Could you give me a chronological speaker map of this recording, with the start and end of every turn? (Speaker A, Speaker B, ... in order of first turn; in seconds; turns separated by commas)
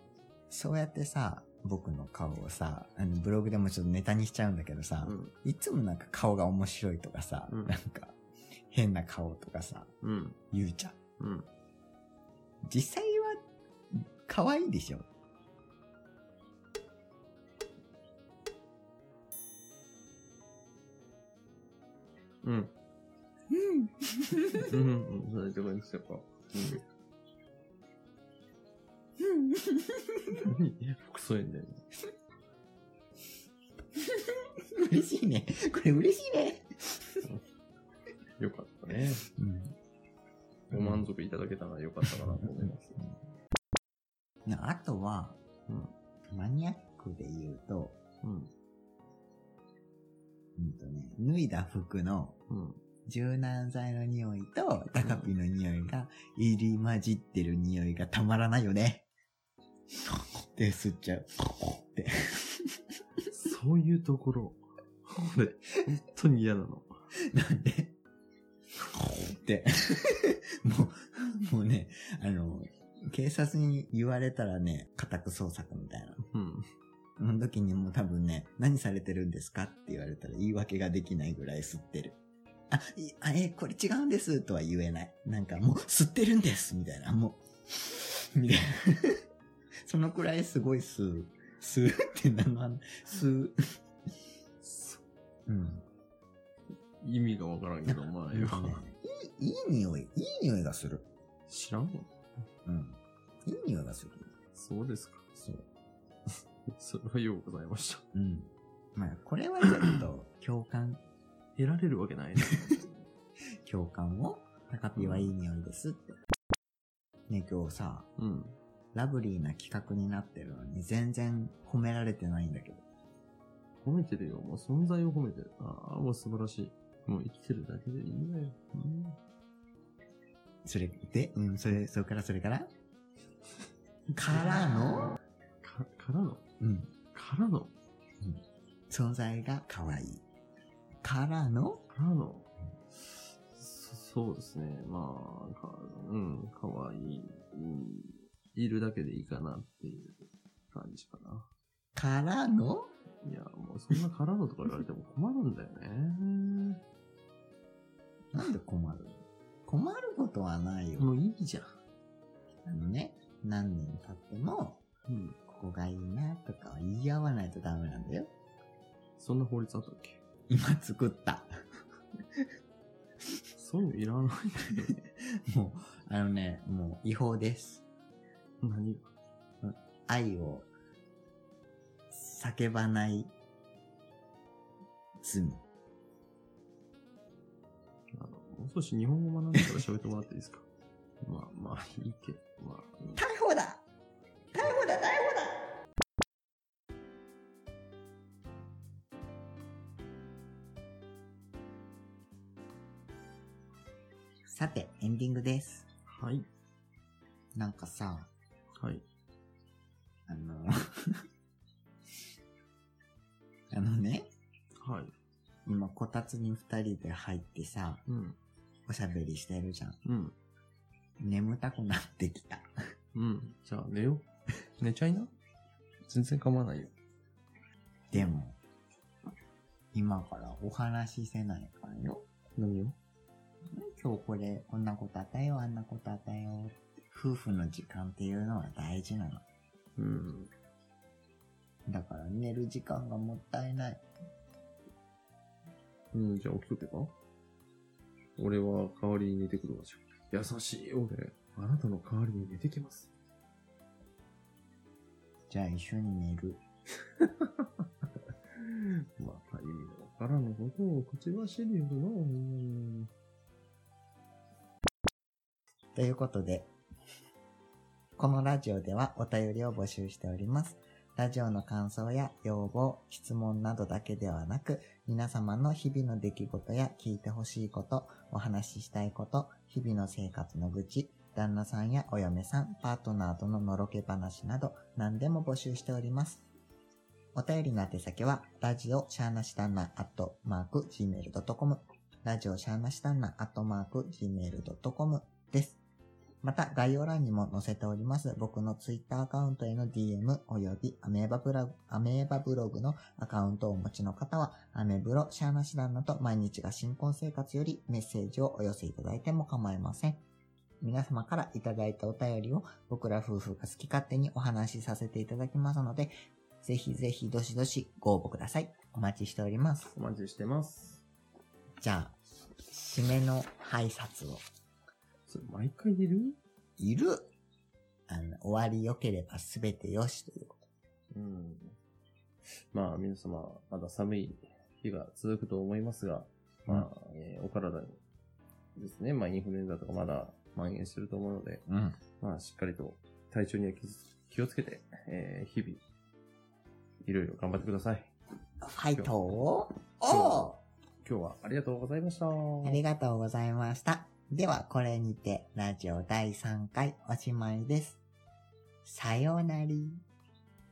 Speaker A: 0.5-8.2, Speaker B: 5.0-5.3, Speaker A: 8.7-9.9, Speaker B: 10.0-10.4, Speaker A: 10.5-10.9, Speaker B: 11.2-11.5, Speaker A: 12.7-13.4, Speaker A: 13.9-15.1, Speaker B: 22.4-22.7, Speaker A: 23.5-24.7, Speaker B: 24.6-26.8, Speaker A: 29.2-30.4, Speaker B: 30.4-31.8, Speaker A: 34.0-37.2, Speaker B: 38.4-39.3, Speaker A: 39.4-39.7, Speaker A: 40.7-41.0, Speaker B: 40.7-43.0, Speaker A: 42.1-43.1, Speaker A: 44.5-45.4, Speaker B: 45.7-45.9, Speaker A: 46.3-48.0, Speaker B: 48.2-48.5, Speaker A: 50.6-52.4, Speaker B: 52.5-52.8, Speaker A: 53.0-59.1, Speaker B: 54.9-55.3, Speaker A: 60.5-62.8, Speaker B: 63.3-66.9, Speaker A: 67.3-67.9, Speaker A: 68.9-76.2, Speaker B: 76.3-76.6, Speaker A: 77.2-82.2, Speaker A: 82.7-89.2, Speaker A: 89.8-93.8, Speaker B: 94.6-95.0, Speaker A: 95.5-95.8, Speaker B: 97.0-98.8, Speaker A: 97.9-101.0, Speaker B: 101.5-102.1, Speaker A: 102.6-104.3, Speaker B: 104.5-105.3, Speaker A: 105.4-105.6, Speaker B: 106.7-108.0, Speaker A: 108.1-111.0, Speaker B: 111.5-113.1, Speaker A: 113.6-116.2, Speaker B: 115.0-115.3, Speaker A: 117.3-118.1, Speaker B: 118.2-118.6, Speaker A: 118.9-122.8, Speaker B: 123.8-129.1, Speaker A: 130.6-132.7, Speaker A: 134.2-135.2, Speaker B: 135.6-136.4, Speaker A: 136.6-136.9, Speaker B: 137.1-137.7, Speaker A: 138.2-140.2, Speaker A: 141.0-141.8, Speaker B: 141.9-151.5, Speaker A: 151.9-152.9, Speaker B: 153.2-156.8, Speaker A: 158.3-161.1, Speaker B: 161.0-161.7, Speaker A: 162.7-164.8, Speaker B: 165.1-165.4, Speaker A: 165.5-168.3, Speaker B: 169.2-170.2, Speaker A: 170.5-171.5, Speaker B: 173.5-174.9, Speaker A: 175.0-177.8, Speaker B: 178.6-179.1, Speaker A: 179.6-180.7, Speaker A: 182.1-183.3, Speaker A: 185.2-185.6, Speaker B: 188.1-190.7, Speaker B: 191.2-193.2, Speaker A: 193.2-193.8, Speaker A: 194.5-195.6, Speaker A: 204.5-205.8, Speaker B: 206.1-206.4, Speaker A: 207.6-208.3, Speaker B: 208.8-209.0, Speaker A: 210.3-211.2, Speaker A: 213.7-214.3, Speaker B: 214.8-215.1, Speaker A: 215.7-218.0, Speaker B: 218.1-218.3, Speaker A: 218.9-220.0, Speaker B: 220.0-220.3, Speaker A: 221.2-222.7, Speaker B: 223.1-224.2, Speaker B: 224.8-225.3, Speaker B: 226.1-226.9, Speaker A: 228.1-228.6, Speaker A: 229.9-233.0, Speaker A: 233.7-239.4, Speaker B: 240.0-240.5, Speaker A: 241.8-244.0, Speaker B: 246.1-247.1, Speaker B: 248.4-253.1, Speaker A: 255.5-256.6, Speaker B: 257.2-257.7, Speaker B: 258.5-263.1, Speaker A: 265.9-266.7, Speaker A: 268.2-286.4, Speaker A: 287.3-295.8, Speaker A: 296.4-310.2, Speaker A: 310.8-319.9, Speaker B: 319.9-321.0, Speaker A: 321.8-324.4, Speaker B: 325.3-326.4, Speaker A: 326.8-327.3, Speaker A: 328.1-330.6, Speaker B: 331.1-331.8, Speaker B: 332.7-338.0, Speaker B: 338.8-341.6, Speaker A: 341.7-342.0, Speaker B: 342.2-345.8, Speaker B: 347.0-348.1, Speaker A: 348.6-350.6, Speaker B: 348.9-349.2, Speaker B: 350.1-352.8, Speaker A: 352.6-358.0, Speaker A: 358.8-360.0